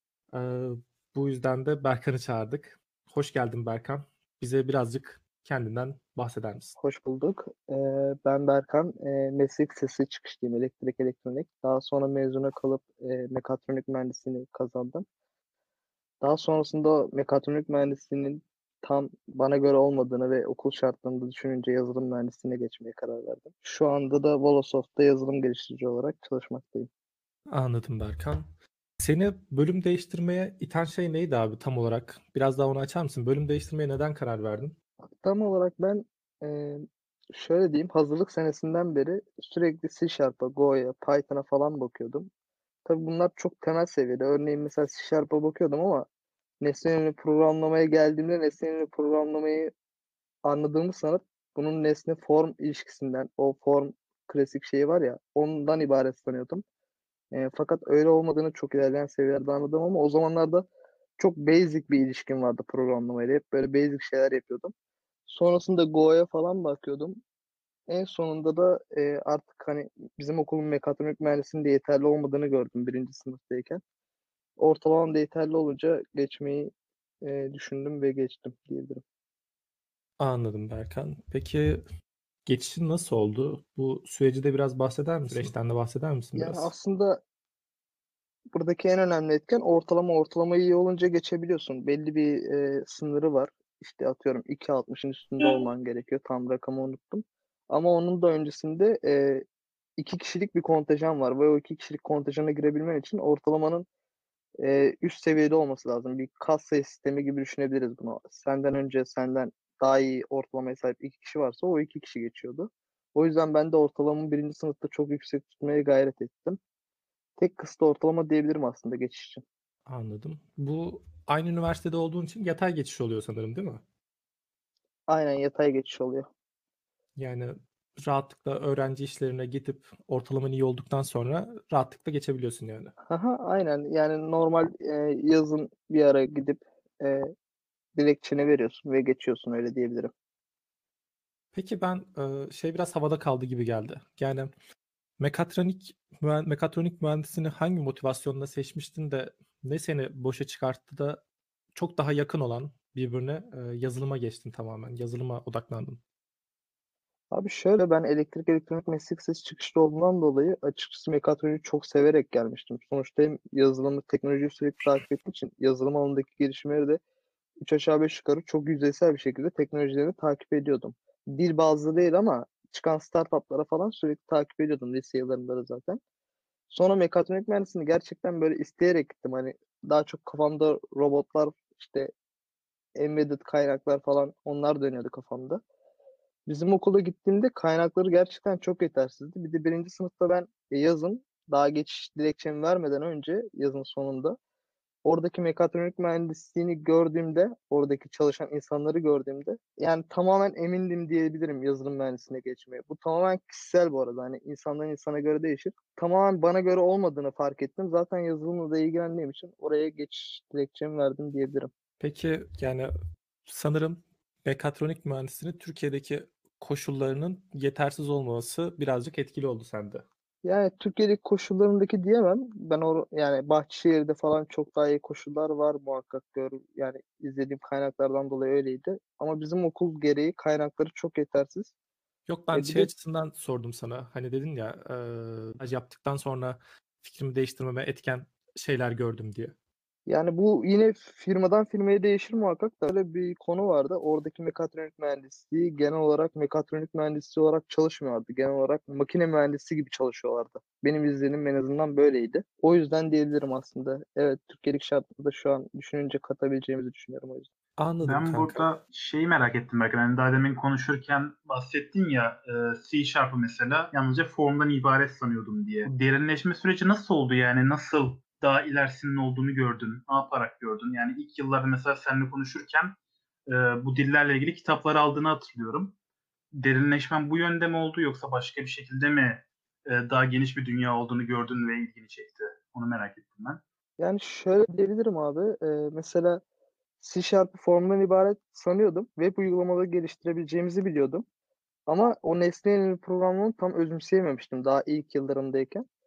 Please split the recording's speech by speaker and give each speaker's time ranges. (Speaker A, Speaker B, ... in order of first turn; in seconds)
Speaker A: 0.3-6.8, 27.5-28.5, 29.0-34.8, 80.2-81.8, 82.5-86.7, 119.9-123.8, 127.2-132.9, 141.5-144.5, 145.2-151.2, 151.8-156.0, 212.0-212.9, 213.5-220.1, 232.3-239.5, 257.8-258.6
Speaker B: 6.8-15.1, 16.2-26.9, 35.2-42.3, 42.9-46.1, 46.6-49.7, 50.5-56.6, 57.3-60.6, 61.2-64.7, 65.3-67.2, 67.9-73.8, 74.6-76.7, 77.2-79.0, 86.4-87.2, 88.5-99.4, 100.0-103.9, 104.6-116.6, 117.4-119.4, 125.1-126.3, 133.1-137.3, 138.0-140.1, 157.3-167.0, 167.6-176.0, 176.7-182.1, 183.0-185.6, 186.5-194.4, 195.0-211.7, 220.4-231.7, 232.5-232.9, 240.1-257.5, 284.0-286.4, 287.0-291.2, 291.9-295.9
Speaker C: 258.0-275.9, 276.6-283.6